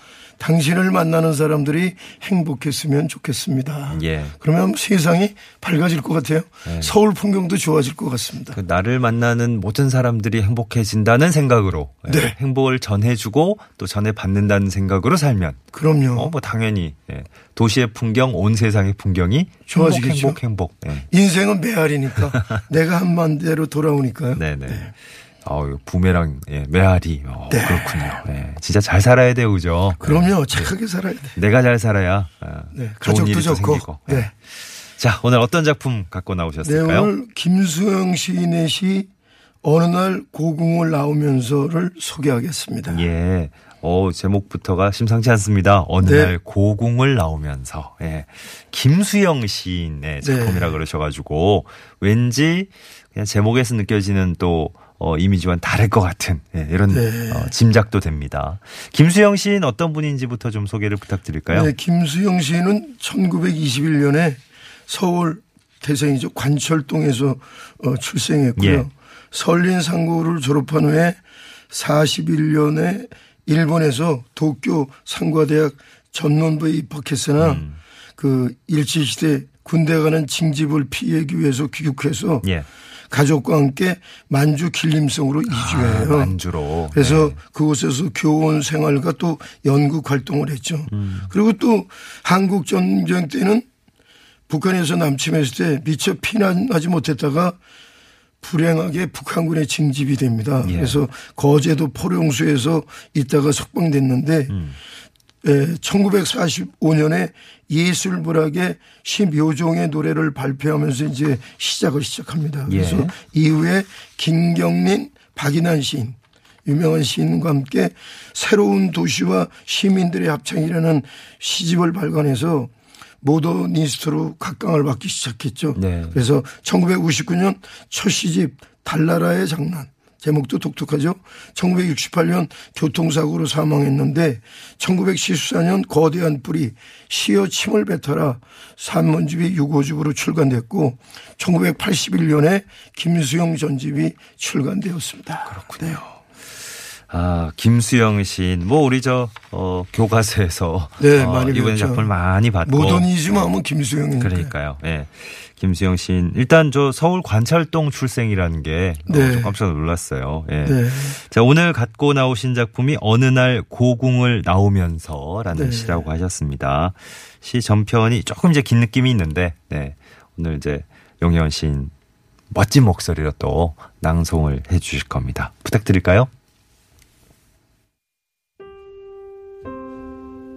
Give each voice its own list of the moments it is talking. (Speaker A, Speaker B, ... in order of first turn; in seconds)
Speaker A: 0.4-8.6, 12.1-12.4, 15.7-16.3, 19.7-20.4, 21.1-24.9, 27.5-28.2, 30.0-31.4, 32.7-34.3, 36.6-39.1, 39.6-43.1, 46.0-46.4, 50.2-50.8, 56.9-57.5, 61.5-71.2, 71.7-77.7, 78.2-82.5, 83.1-86.4, 86.9-93.7, 94.5-97.6, 98.4-104.6, 105.4-116.2, 116.7-122.7, 123.2-146.0, 151.0-152.1, 152.6-154.5, 159.1-159.6, 160.6-161.2, 165.5-166.0
Speaker B: 3.9-4.4, 6.7-6.9, 8.5-15.6, 16.1-21.1, 22.3-22.6, 24.4-24.9, 25.4-30.7, 31.4-37.1, 42.9-61.7, 68.6-68.9, 77.4-77.8, 82.4-82.7, 85.5-87.4, 90.9-91.3, 100.6-101.0, 104.5-104.8, 112.7-113.2, 125.8-126.2, 145.5-146.2, 147.1-153.6, 154.2-171.9, 172.5-176.3